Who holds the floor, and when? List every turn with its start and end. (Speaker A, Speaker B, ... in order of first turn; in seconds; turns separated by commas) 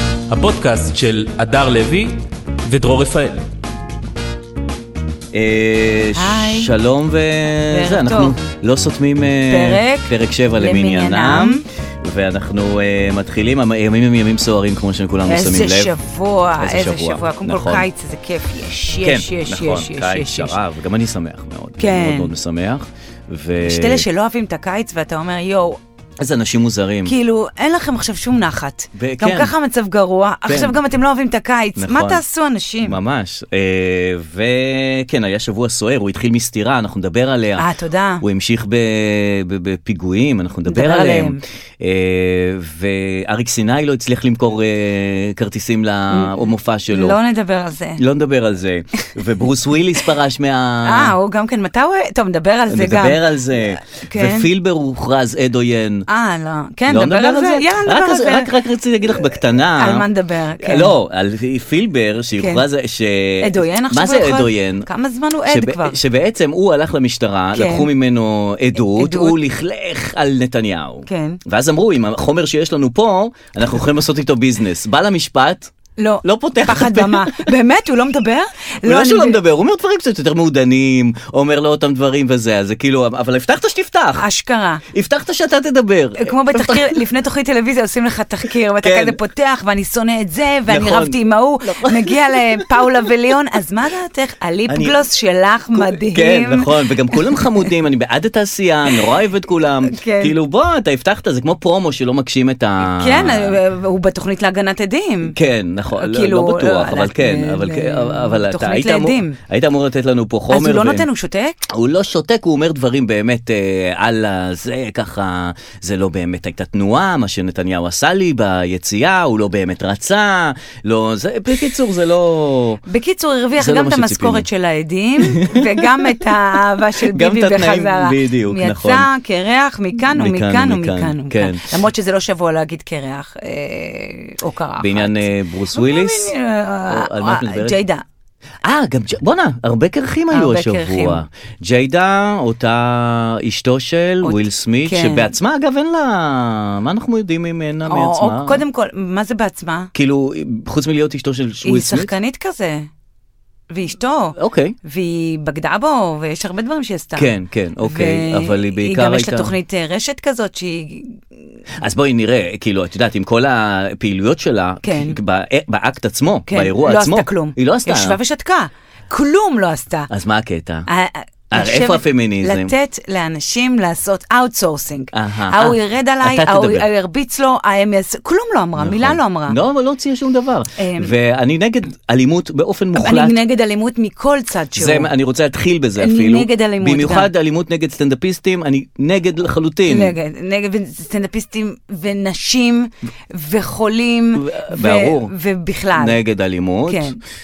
Speaker A: 0.3-3.4, Speaker B: 5.3-15.9, Speaker C: 6.1-6.7, Speaker C: 7.7-8.3, Speaker C: 9.5-11.6, Speaker C: 15.2-20.6, Speaker B: 16.6-17.8, Speaker B: 19.0-24.0, Speaker C: 21.8-22.3, Speaker C: 23.6-25.8, Speaker B: 26.2-27.1, Speaker C: 27.0-33.0, Speaker B: 28.9-29.5, Speaker B: 30.5-30.8, Speaker B: 31.8-32.2, Speaker B: 32.8-37.7, Speaker C: 37.6-38.2, Speaker B: 38.2-47.2, Speaker C: 40.7-41.4, Speaker C: 46.1-48.0, Speaker B: 48.0-51.1, Speaker C: 50.8-53.2, Speaker B: 52.7-56.0, Speaker C: 53.9-54.5, Speaker C: 56.1-58.5, Speaker B: 56.9-60.0, Speaker C: 59.8-60.9, Speaker B: 60.6-64.9, Speaker C: 62.4-62.6, Speaker C: 63.4-66.0, Speaker B: 65.5-75.7, Speaker C: 67.5-67.9, Speaker C: 68.8-69.4, Speaker C: 71.1-71.4, Speaker C: 76.0-79.4, Speaker B: 76.2-77.5, Speaker B: 78.8-84.3, Speaker C: 84.2-84.8, Speaker B: 84.9-87.0, Speaker C: 86.2-97.6, Speaker B: 88.8-89.2, Speaker B: 90.7-93.1, Speaker B: 94.7-95.0, Speaker B: 95.7-103.6, Speaker C: 99.8-100.3, Speaker C: 102.8-105.3, Speaker B: 105.3-111.0, Speaker C: 105.9-109.4, Speaker C: 110.5-111.7, Speaker B: 111.7-122.8, Speaker C: 122.8-138.0, Speaker B: 123.6-124.5, Speaker B: 125.2-126.1, Speaker B: 126.9-129.1, Speaker B: 130.1-131.7, Speaker B: 134.8-136.3, Speaker B: 136.9-137.8, Speaker B: 138.6-148.6, Speaker C: 140.3-141.2, Speaker C: 144.2-145.3, Speaker C: 147.8-149.9, Speaker B: 149.9-152.1, Speaker C: 151.6-152.9, Speaker C: 153.7-161.2, Speaker B: 154.4-154.7, Speaker B: 157.2-159.5, Speaker B: 161.8-168.2, Speaker C: 164.8-165.2, Speaker C: 166.5-170.1, Speaker B: 170.1-170.9, Speaker C: 170.9-179.6, Speaker B: 171.5-172.7, Speaker B: 175.1-176.8, Speaker B: 178.8-183.4, Speaker C: 180.8-181.1, Speaker C: 182.9-185.1, Speaker B: 184.7-190.1, Speaker C: 186.0-187.3, Speaker C: 189.9-196.2, Speaker B: 194.3-195.3, Speaker B: 195.9-197.1, Speaker C: 196.9-197.2